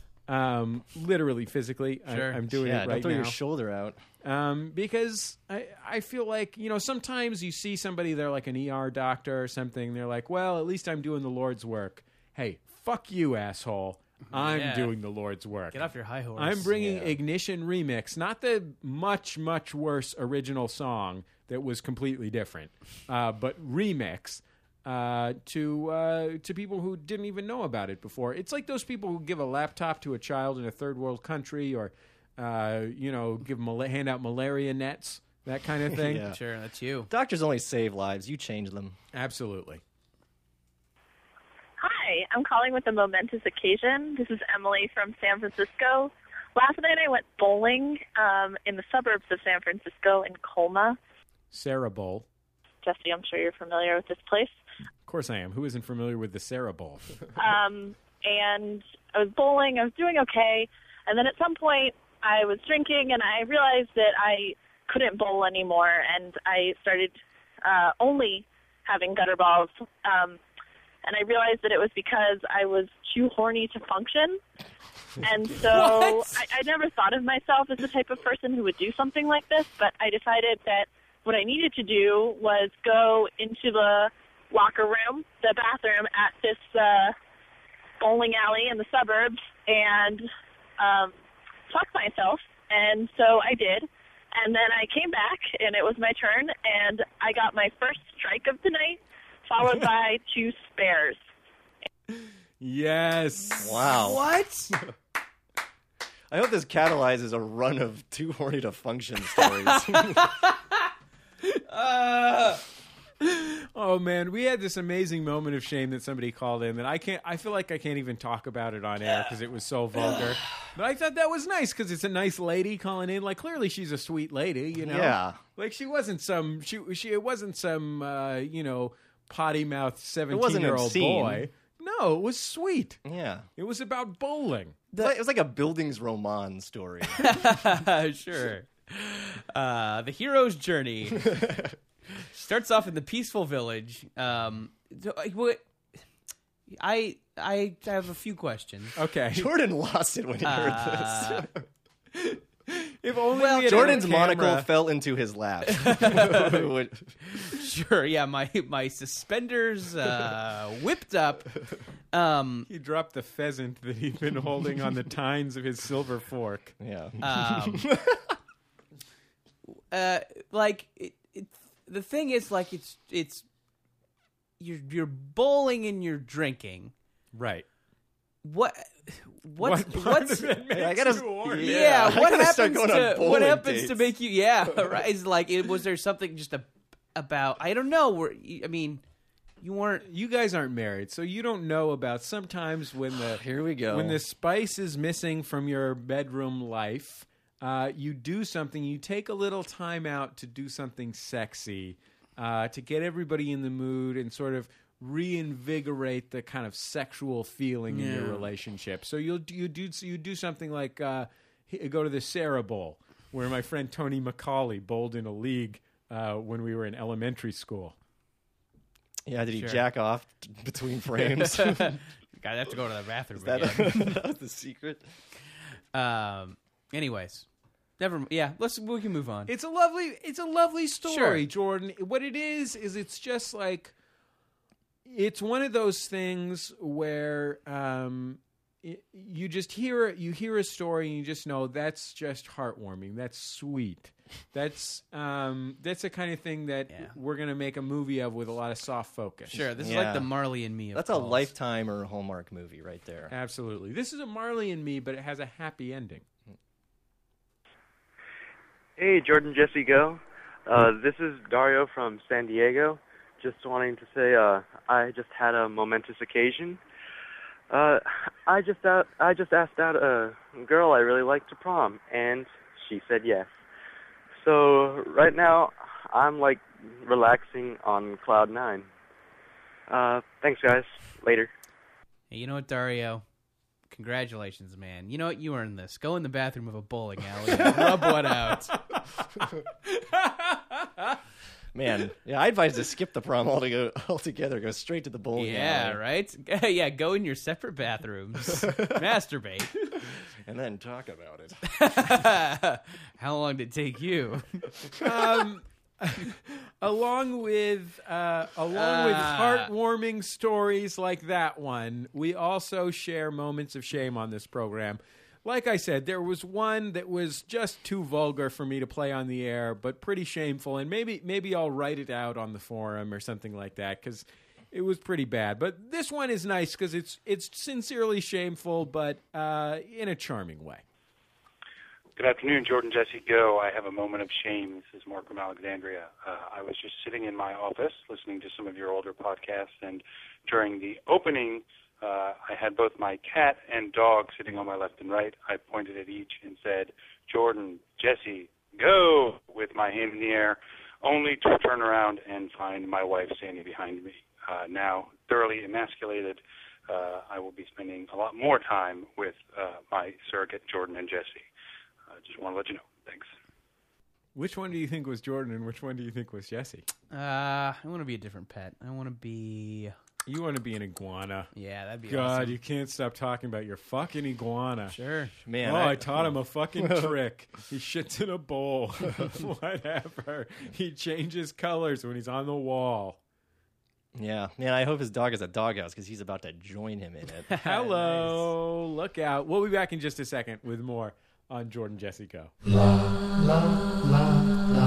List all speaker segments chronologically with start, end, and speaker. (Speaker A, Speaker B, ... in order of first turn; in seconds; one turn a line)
Speaker A: 0.3-3.4
Speaker B: 2.1-2.4
Speaker C: 2.5-4.0
Speaker A: 4.2-36.2
Speaker B: 14.3-14.9
Speaker B: 15.7-16.8
Speaker C: 16.8-17.1
Speaker C: 35.9-36.4
Speaker B: 36.3-37.1
Speaker C: 37.1-39.0
Speaker A: 39.1-39.8
Speaker D: 41.8-51.0
Speaker A: 51.5-52.2
Speaker D: 52.8-54.6
Speaker A: 55.1-57.2
Speaker D: 57.3-70.4
Speaker D: 71.0-74.4
Speaker D: 75.2-87.1
Speaker B: 75.7-76.3
Speaker D: 88.0-90.2
Speaker D: 90.8-91.1
Speaker D: 91.7-101.2
Speaker A: 102.1-103.9
Speaker C: 103.6-104.2
Speaker B: 104.0-104.7
Speaker C: 106.3-110.3
Speaker B: 110.0-110.6
Speaker B: 111.7-112.6
Speaker A: 113.2-133.0
Speaker C: 124.8-125.4
Speaker C: 130.3-131.4
Speaker C: 133.0-133.5
Speaker A: 133.6-134.9
Speaker C: 134.9-137.2
Speaker B: 137.2-141.4
Speaker C: 141.3-141.7
Speaker B: 142.2-145.6
Speaker B: 146.7-148.9
Speaker A: 148.9-149.5
Speaker C: 149.3-151.5
Speaker B: 150.4-151.5
Speaker A: 152.1-154.7
Speaker B: 153.3-154.0
Speaker C: 153.7-157.1
Speaker B: 155.7-156.5
Speaker B: 157.4-161.5
Speaker B: 162.1-162.7
Speaker A: 162.7-166.7
Speaker C: 166.8-168.3
Speaker B: 167.2-167.9
Speaker B: 169.9-173.4
Speaker B: 174.6-176.9
Speaker A: 177.3-177.6
Speaker B: 178.4-180.5
Speaker A: 179.6-182.1
Speaker C: 180.7-184.0
Speaker B: 181.6-189.0
Speaker B: 189.6-190.0
Speaker A: 190.0-217.9
Speaker C: 193.2-194.2
Speaker B: 207.9-208.4
Speaker C: 219.2-222.0
Speaker B: 219.5-219.8
Speaker B: 221.2-224.2
Speaker C: 223.4-225.0
Speaker B: 225.9-227.4
Speaker B: 228.0-229.5
Speaker A: 229.5-233.9
Speaker B: 231.1-231.4
Speaker A: 235.1-249.6
Speaker B: 249.5-251.5
Speaker C: 249.8-250.3
Speaker C: 250.9-253.3
Speaker A: 253.3-256.2
Speaker E: 259.0-266.8
Speaker E: 267.7-273.5
Speaker E: 274.4-278.9
Speaker E: 279.9-281.5
Speaker B: 282.3-283.2
Speaker B: 283.9-288.7
Speaker A: 289.9-290.9
Speaker C: 291.7-296.0
Speaker B: 295.4-299.7
Speaker C: 300.4-301.6
Speaker B: 301.7-304.6
Speaker A: 305.0-330.8
Speaker B: 308.7-309.7
Speaker F: 332.1-361.5
Speaker F: 362.1-363.3
Speaker A: 364.3-366.9
Speaker B: 367.1-369.9
Speaker A: 370.3-371.5
Speaker B: 371.5-372.6
Speaker A: 372.1-374.9
Speaker B: 374.9-375.3
Speaker C: 375.4-377.1
Speaker A: 375.6-383.2
Speaker C: 384.1-387.5
Speaker B: 387.5-388.5
Speaker A: 387.6-392.5